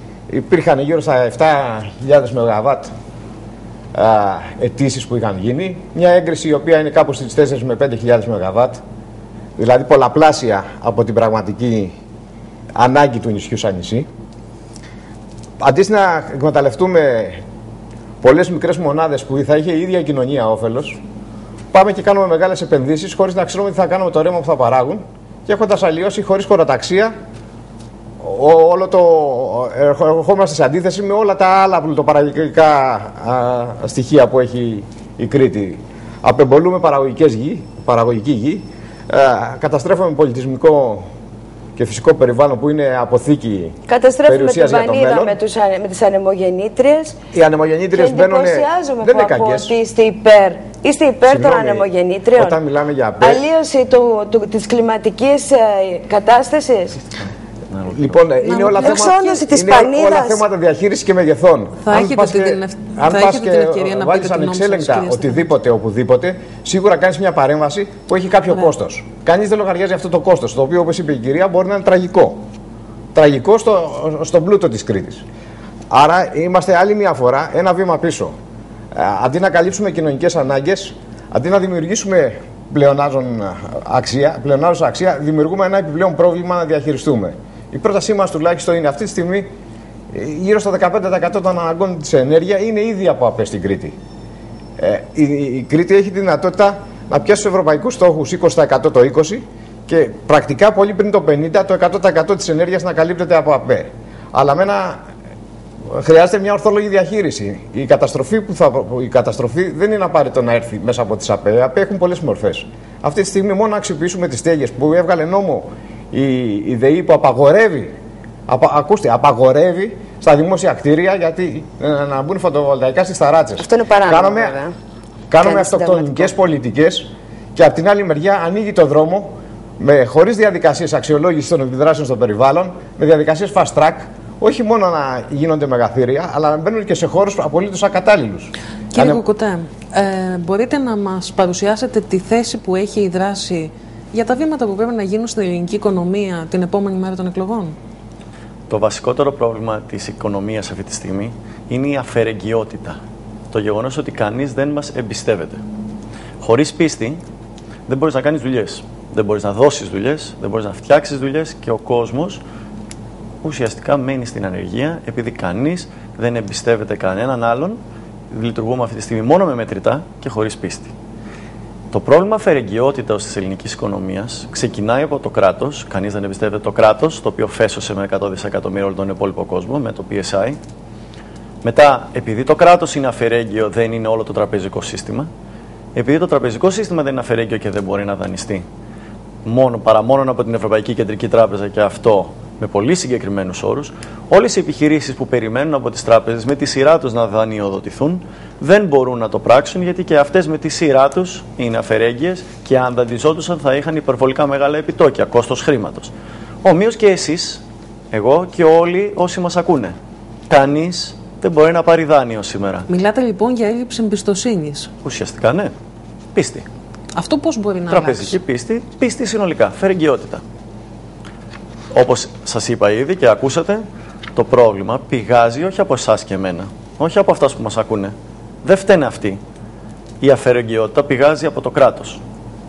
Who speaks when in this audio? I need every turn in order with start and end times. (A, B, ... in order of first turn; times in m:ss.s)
0:00.3-0:02.9 A
0:03.9-0:08.8 A
0:09.6-0:11.9 A
0:12.7-0:14.1 A
0:15.6-0:17.4 A
0:18.2-0:21.0 A
0:21.7-0:27.1 A
0:28.2-0:41.0 A
0:41.8-0:45.3 A
0:43.9-0:47.2 B
0:47.3-0:49.7 A
0:47.9-0:52.6 B
0:51.3-0:53.4 A
0:53.2-0:57.0 B
0:57.7-0:58.0 C
0:57.9-1:12.4 A
0:58.4-0:59.4 D
0:58.6-1:00.4 B
1:01.8-1:05.5 D
1:13.1-1:15.2 A
1:15.9-1:18.3 A
1:18.9-1:29.5 A
1:30.1-1:34.0 A
1:34.8-1:45.0 A
1:45.9-1:57.9 A
1:58.5-2:04.6 A
2:03.6-2:04.7 B
2:05.3-2:19.2 A
2:05.4-2:06.3 B
2:18.9-2:27.8 D
2:28.7-2:33.0 C
2:33.5-2:35.6 C
2:36.4-2:37.2 C
2:37.9-2:42.4 C
2:43.4-2:47.8 C
2:48.3-2:50.9 C
2:51.9-3:00.6 C
3:01.6-3:05.3 C
3:05.9-3:08.6 C
3:09.4-3:26.1 C
3:26.6-3:29.9 C
3:30.5-3:32.9 C
3:32.9-3:34.9 D
3:35.0-3:35.7 C
3:36.3-3:36.6 C
3:37.1-3:38.4 D
3:37.9-3:40.4 C
3:41.9-3:43.8 C
3:44.3-3:49.4 C
3:50.2-3:52.2 C